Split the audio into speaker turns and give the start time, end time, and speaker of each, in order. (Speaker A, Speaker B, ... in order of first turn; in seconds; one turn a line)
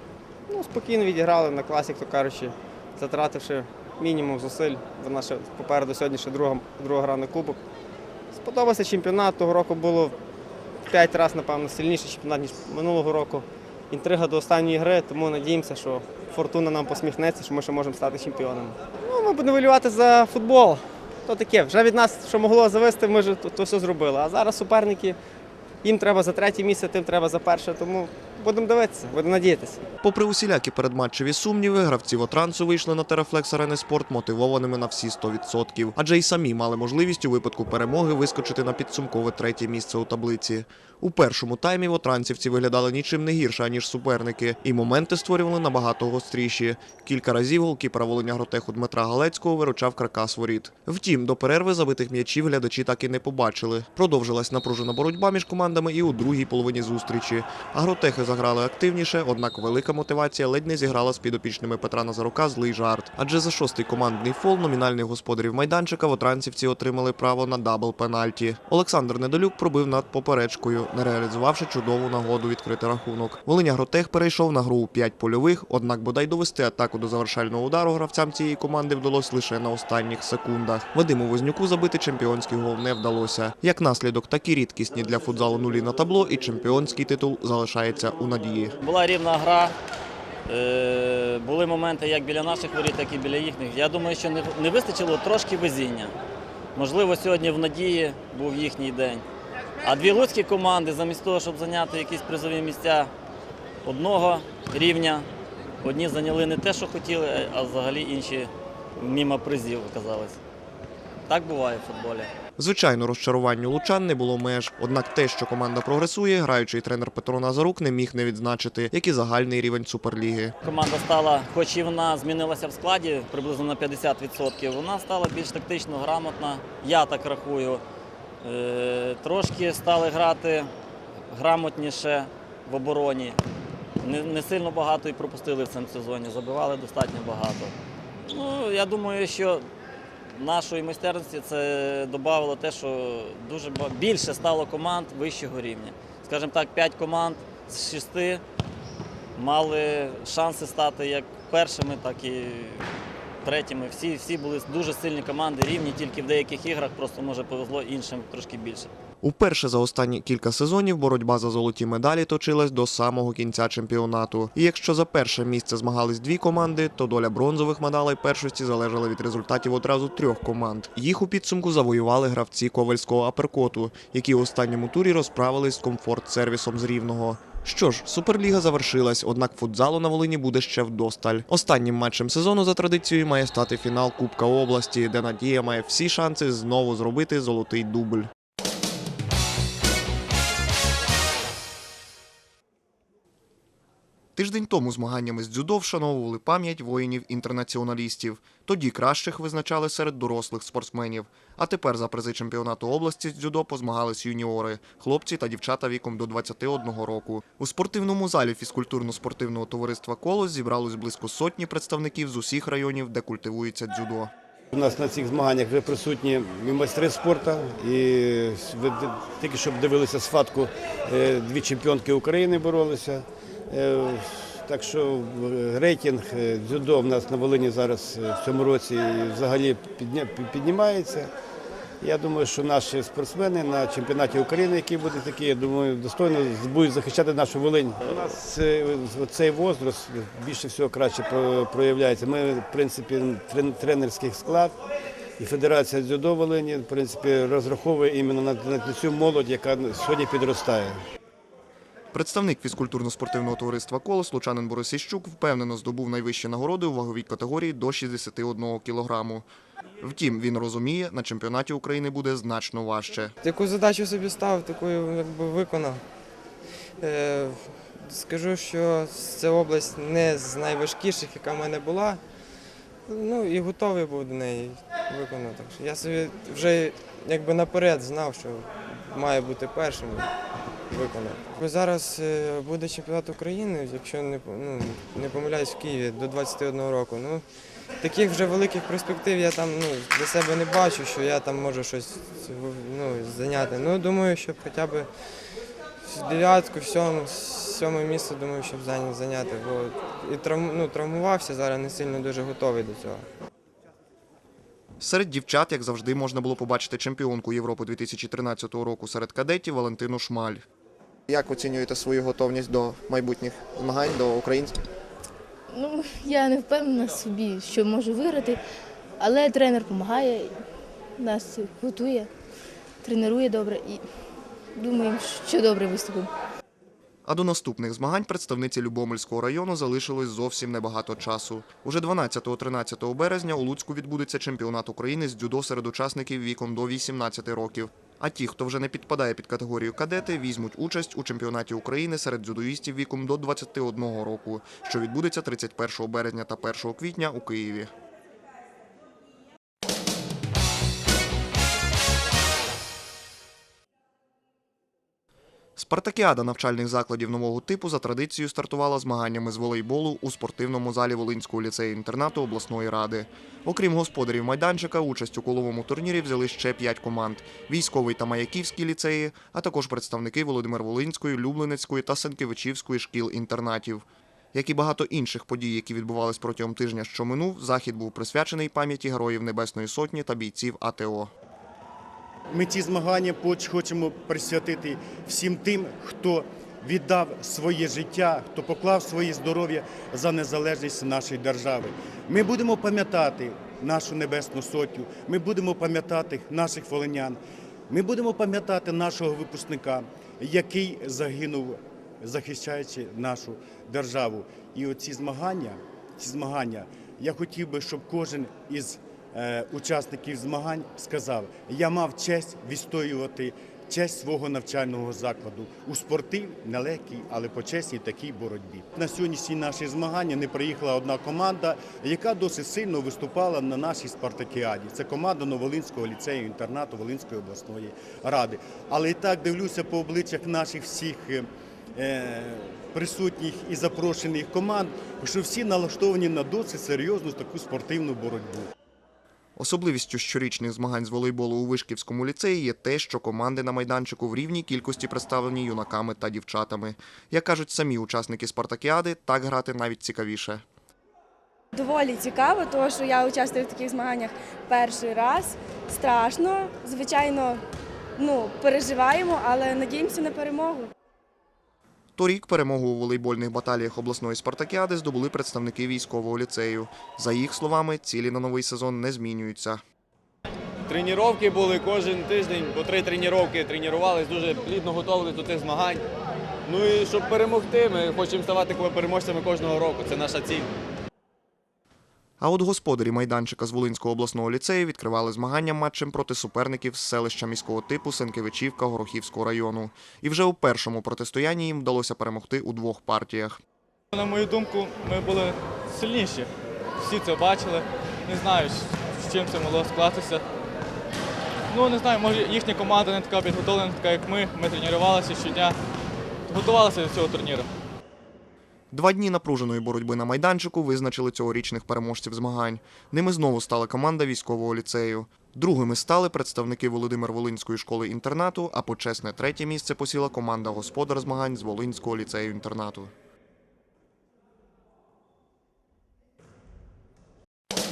Speaker A: 0.5-7.6
Speaker A: 8.3-10.2
Speaker A: 10.9-25.2
Speaker A: 25.8-29.8
Speaker B: 30.0-88.7
Speaker C: 88.8-89.7
Speaker C: 90.5-96.1
Speaker C: 96.7-99.2
Speaker C: 99.8-103.1
Speaker C: 103.8-105.3
Speaker C: 105.8-110.4
Speaker C: 111.3-112.3
Speaker B: 112.6-120.5
Speaker C: 120.6-127.8
Speaker C: 128.4-130.7
Speaker C: 131.3-133.4
Speaker C: 134.0-139.7
Speaker C: 140.3-148.4
Speaker C: 149.3-152.8
Speaker C: 153.4-158.9
Speaker B: 159.2-188.3
Speaker B: 194.3-214.3
Speaker D: 214.7-231.3
Speaker D: 232.0-244.7
Speaker D: 245.4-251.0
Speaker B: 252.1-259.5
Speaker B: 260.0-263.3
Speaker E: 263.4-266.0
Speaker E: 267.0-272.2
Speaker E: 273.1-280.3
Speaker E: 280.9-287.4
Speaker E: 288.0-295.1
Speaker E: 296.0-303.2
Speaker B: 305.0-310.6
Speaker B: 311.3-314.8
Speaker F: 315.7-318.6
Speaker F: 319.2-320.6
Speaker F: 321.2-322.3
Speaker F: 323.0-324.0
Speaker F: 324.8-326.3
Speaker B: 327.2-347.9
Speaker B: 355.8-381.3
Speaker G: 382.5-438.7
Speaker B: 439.6-450.6
Speaker H: 451.7-457.6
Speaker H: 458.2-460.9
Speaker B: 462.1-469.8
Speaker I: 470.9-476.0
Speaker I: 476.7-480.7
Speaker B: 482.4-493.6
Speaker J: 494.1-500.4
Speaker J: 501.7-505.8
Speaker J: 506.5-507.7
Speaker B: 508.9-523.1